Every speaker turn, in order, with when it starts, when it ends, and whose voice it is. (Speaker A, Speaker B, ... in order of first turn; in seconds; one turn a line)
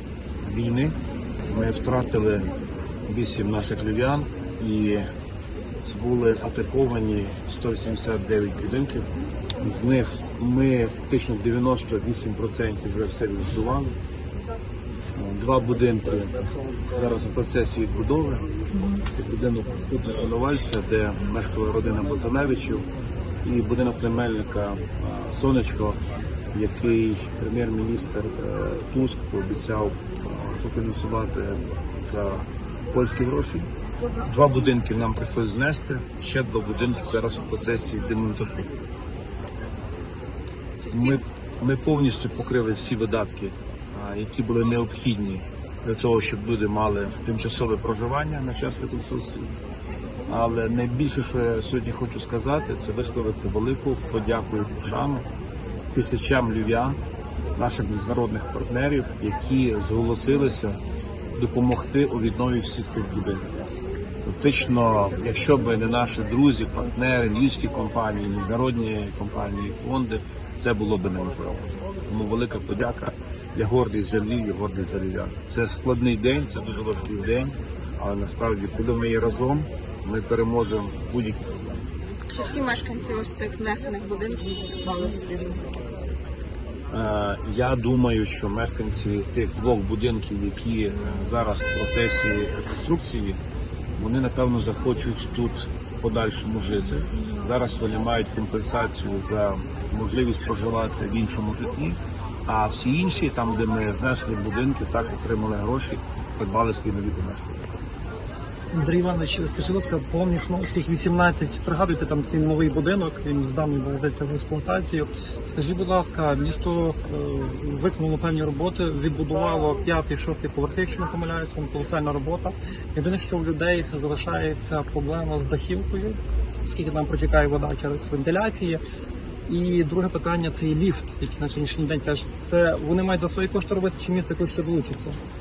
Speaker A: 0.4-1.0
Speaker A: 1.5-2.5
Speaker A: 3.1-5.1
Speaker A: 5.9-9.1
Speaker A: 9.6-14.0
Speaker A: 15.2-18.4
Speaker A: 19.1-22.9
Speaker A: 23.4-26.0
Speaker A: 26.5-33.7
Speaker A: 34.2-38.7
Speaker B: 40.8-41.2
Speaker A: 40.9-49.5
Speaker A: 50.3-55.3
Speaker A: 55.9-57.0
Speaker A: 57.6-60.8
Speaker A: 61.4-63.7
Speaker A: 64.2-81.5
Speaker B: 82.3-85.6
Speaker A: 86.9-93.4
Speaker A: 94.0-107.6
Speaker C: 108.7-128.8
Speaker C: 129.5-135.2